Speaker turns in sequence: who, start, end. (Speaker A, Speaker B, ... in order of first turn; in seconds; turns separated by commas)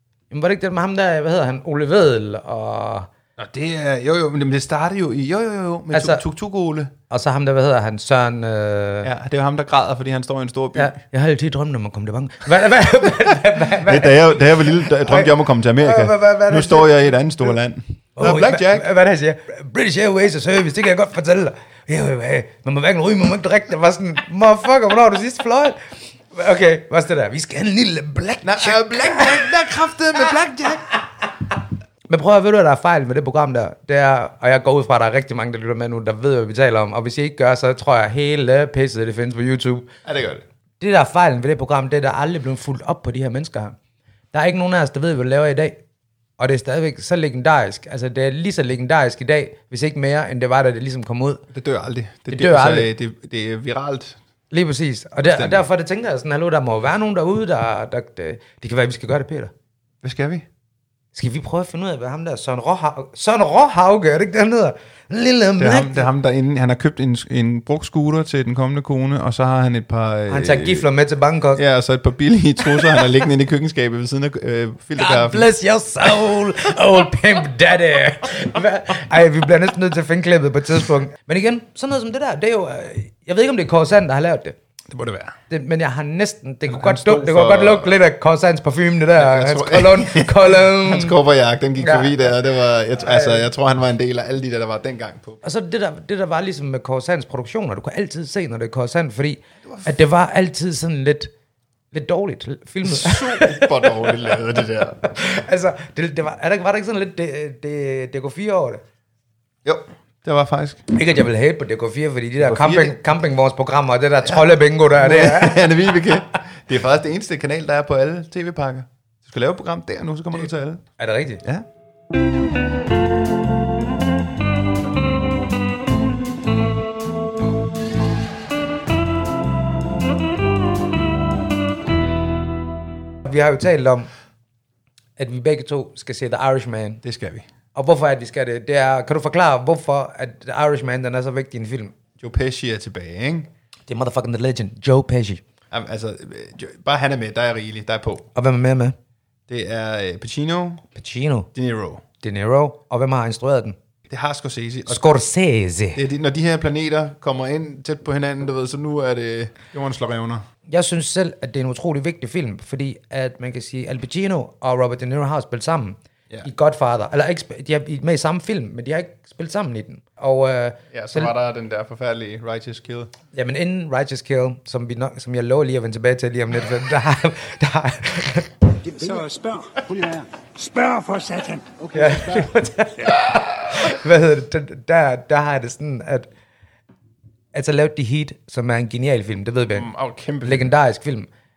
Speaker A: 0.3-3.1, Speaker B: 3.4-6.9, Speaker A: 5.9-6.2, Speaker A: 7.1-9.1, Speaker B: 9.0-10.9, Speaker A: 10.7-17.1, Speaker B: 13.8-18.9, Speaker A: 18.2-29.5, Speaker B: 28.4-30.9, Speaker A: 32.1-39.9, Speaker B: 40.0-40.4, Speaker A: 40.8-43.8, Speaker A: 44.3-45.8, Speaker A: 46.4-51.4, Speaker B: 51.5-54.2, Speaker A: 52.3-52.9, Speaker A: 54.5-59.5, Speaker B: 55.2-55.6, Speaker B: 60.0-60.4, Speaker A: 61.1-66.0, Speaker B: 65.6-70.8, Speaker A: 70.3-71.6, Speaker B: 71.5-75.5, Speaker A: 75.0-84.5, Speaker B: 84.9-85.3, Speaker A: 85.5-91.2, Speaker B: 86.7-88.0, Speaker B: 89.2-95.4, Speaker A: 91.8-92.3, Speaker A: 93.0-93.5, Speaker A: 95.4-101.3, Speaker A: 101.9-104.3, Speaker B: 102.8-105.0, Speaker A: 105.0-108.8, Speaker B: 109.6-110.9, Speaker A: 110.9-115.7, Speaker B: 112.4-113.0, Speaker B: 114.2-120.8, Speaker A: 121.0-121.4, Speaker A: 133.2-134.1, Speaker A: 135.2-137.0, Speaker B: 137.0-137.5, Speaker A: 137.7-141.9, Speaker B: 142.2-143.5, Speaker A: 143.9-145.4, Speaker B: 145.7-148.3, Speaker A: 148.3-148.9, Speaker B: 149.5-150.8, Speaker A: 150.9-151.5, Speaker B: 151.5-152.0, Speaker A: 152.2-153.8, Speaker B: 154.1-155.0, Speaker A: 154.9-156.0, Speaker B: 155.9-160.4, Speaker A: 160.7-171.3, Speaker B: 170.9-173.1, Speaker A: 173.3-178.7, Speaker C: 178.8-183.2, Speaker A: 181.9-186.3, Speaker A: 187.5-189.9, Speaker B: 189.7-190.7, Speaker A: 190.4-191.3